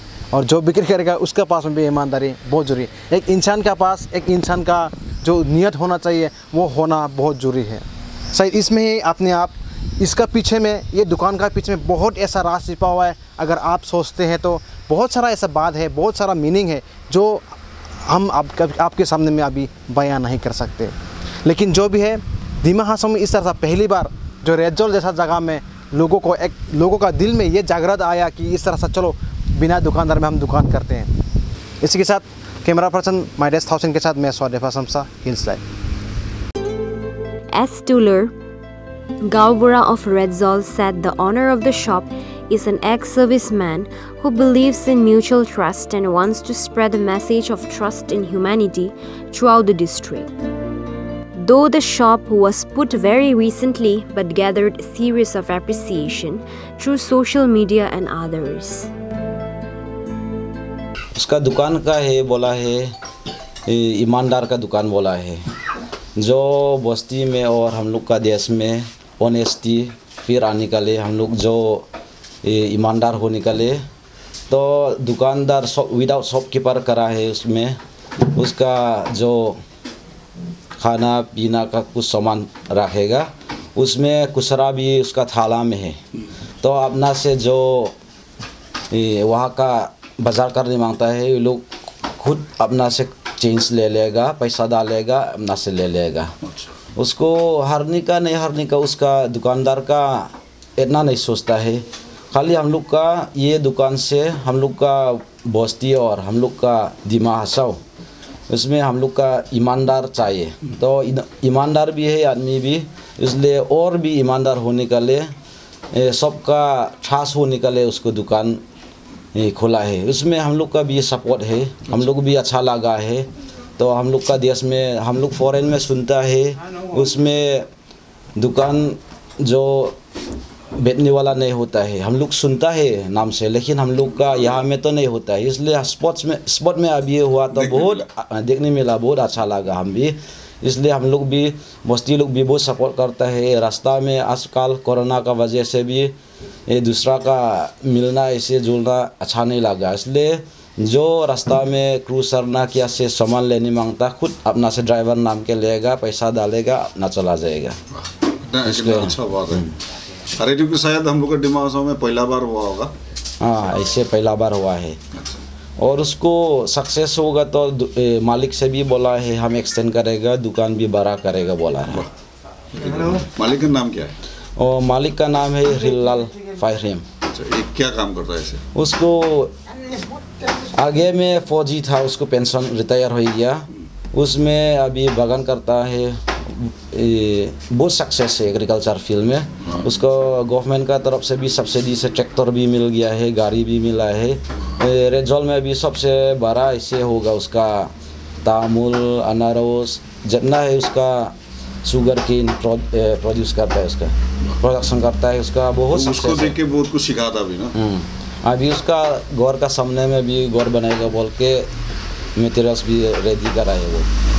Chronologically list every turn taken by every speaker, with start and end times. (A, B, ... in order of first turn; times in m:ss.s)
0:00.3-0:17.5 A
0:18.0-0:31.1 A
0:31.8-0:35.6 A
0:37.5-0:38.3 B
0:39.2-0:50.3 B
0:51.4-0:58.9 B
1:01.2-1:02.9 C
1:03.6-1:05.4 C
1:06.2-1:11.9 C
1:12.4-1:13.8 C
1:14.5-1:17.8 C
1:18.3-1:19.6 C
1:20.8-1:26.0 C
1:26.6-1:27.9 C
1:28.9-1:31.6 C
1:32.2-1:36.3 C
1:37.0-1:47.8 C
1:48.5-1:55.3 C
1:55.9-1:58.6 C
1:59.3-2:07.6 C
2:08.4-2:10.0 C
2:10.8-2:26.1 C
2:17.7-2:18.0 D
2:26.7-2:37.8 C
2:38.4-2:39.6 D
2:38.6-2:39.7 C
2:40.4-2:42.9 D
2:43.4-2:45.0 C
2:45.8-2:52.1 C
2:52.7-2:54.1 D
2:54.6-2:57.0 C
2:57.2-2:58.6 D
2:58.7-2:59.5 C
3:00.6-3:17.9 C
3:18.4-3:21.3 C
3:21.8-3:26.6 C
3:25.9-3:27.7 D
3:27.8-3:31.7 C
3:32.4-3:34.1 C